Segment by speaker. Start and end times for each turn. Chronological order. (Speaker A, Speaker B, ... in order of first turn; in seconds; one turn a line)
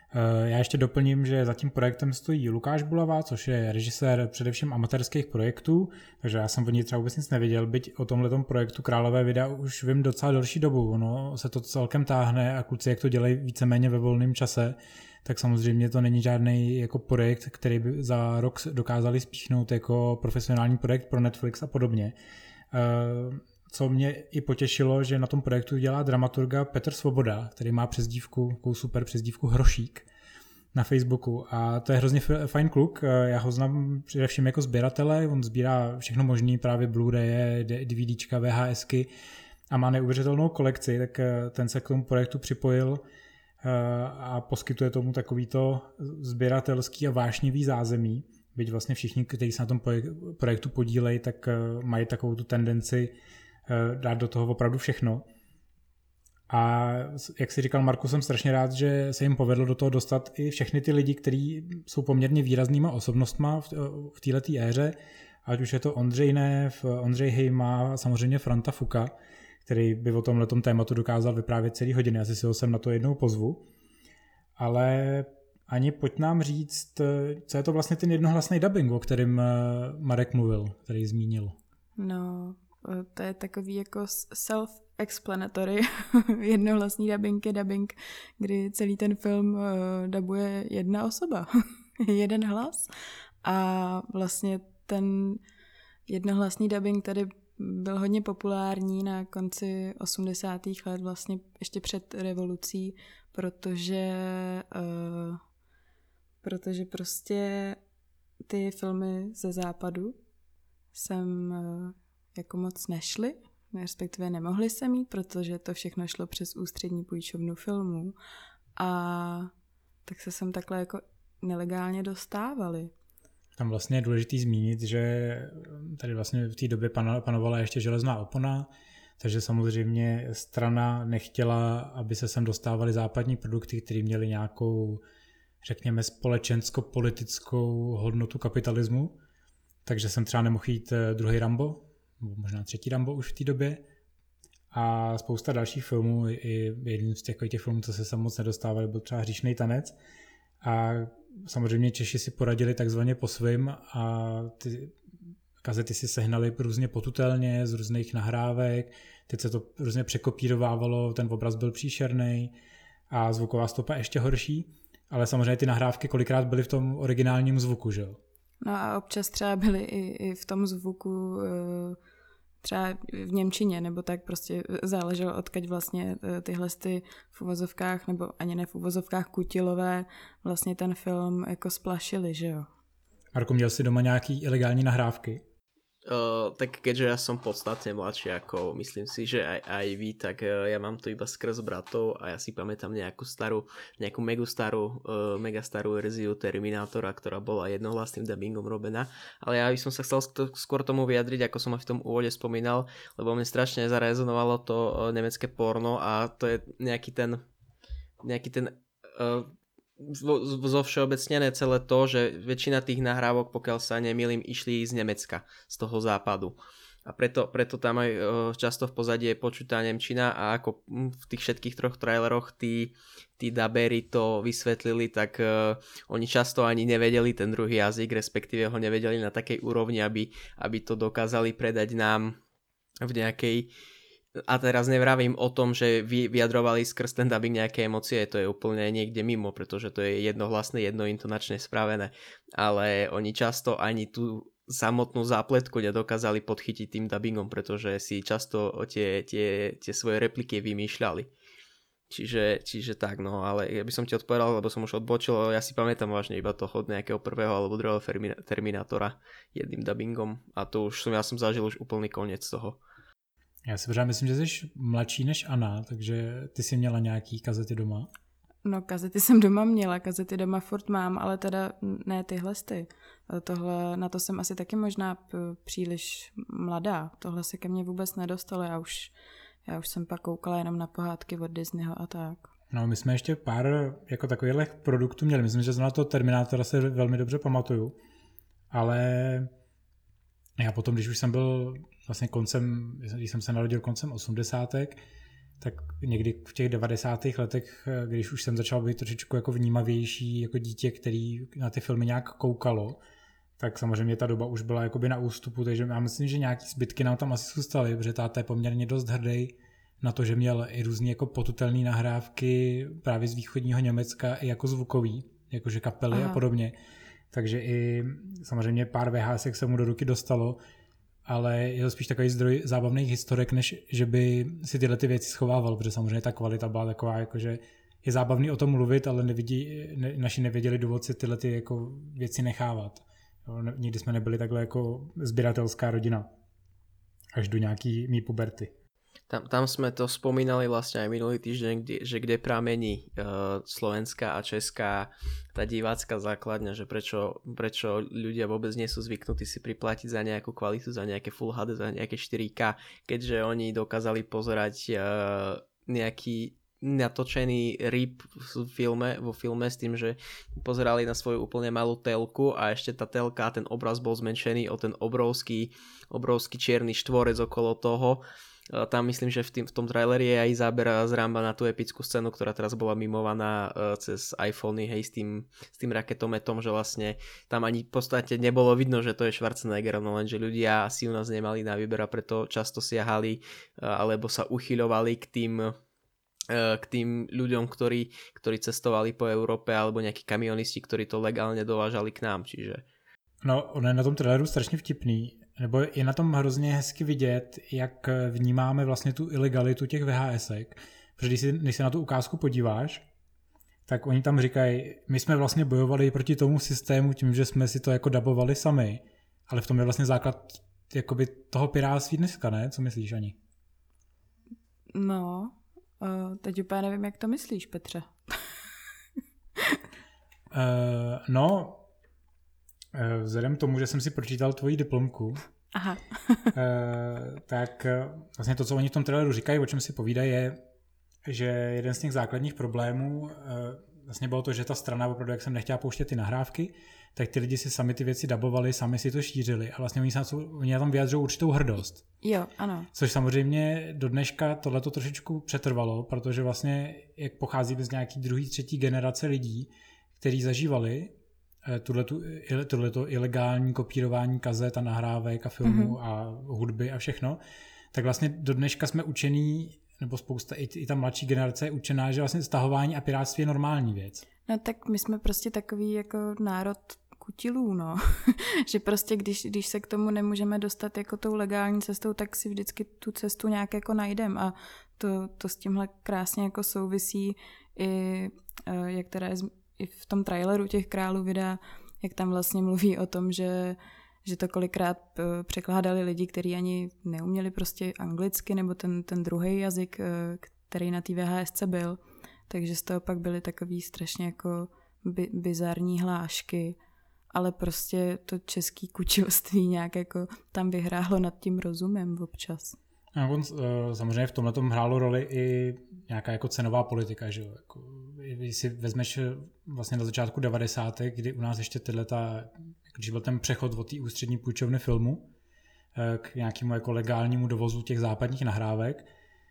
Speaker A: 0.1-22.2
Speaker A: 22.7-30.1
Speaker A: 30.7-39.1
Speaker A: 39.7-43.0
Speaker A: 43.6-53.1
Speaker A: 53.7-55.3
Speaker A: 56.5-69.1
Speaker A: 69.7-73.7
Speaker A: 74.6-81.6
Speaker B: 82.0-92.9
Speaker B: 93.4-95.4
Speaker B: 96.1-105.4
Speaker B: 106.4-107.8
Speaker B: 108.5-110.2
Speaker B: 110.9-118.2
Speaker B: 118.8-119.5
Speaker B: 120.0-122.9
Speaker A: 123.6-135.0
Speaker A: 135.6-139.2
Speaker A: 139.8-143.8
Speaker A: 144.7-149.9
Speaker A: 150.6-155.0
Speaker A: 155.6-162.5
Speaker A: 163.1-168.2
Speaker B: 168.6-172.0
Speaker B: 172.6-182.7
Speaker A: 183.3-185.4
Speaker C: 186.1-207.4
Speaker C: 208.2-232.4
Speaker C: 233.0-233.7
Speaker C: 234.4-251.3
Speaker C: 252.1-262.8
Speaker A: 263.7-268.1
Speaker B: 268.6-279.1
Speaker B: 279.7-282.5
Speaker A: 282.7-288.0
Speaker A: 288.7-289.5
Speaker A: 290.6-295.0
Speaker A: 295.6-303.0
Speaker A: 303.6-316.8
Speaker B: 316.1-316.4
Speaker A: 317.3-320.6
Speaker A: 321.3-336.3
Speaker A: 337.3-338.7
Speaker C: 339.3-385.8
Speaker C: 386.5-392.8
Speaker A: 393.4-403.0
Speaker A: 403.9-413.4
Speaker B: 414.9-418.5
Speaker A: 420.5-421.8
Speaker A: 422.9-425.4
Speaker B: 425.7-426.5
Speaker A: 426.5-430.6
Speaker A: 431.2-442.1
Speaker B: 442.2-442.9
Speaker A: 442.9-451.1
Speaker A: 451.6-457.4
Speaker B: 455.6-456.0
Speaker A: 457.9-464.2
Speaker B: 464.5-496.8
Speaker B: 497.3-502.8
Speaker A: 503.1-515.3
Speaker A: 516.0-519.0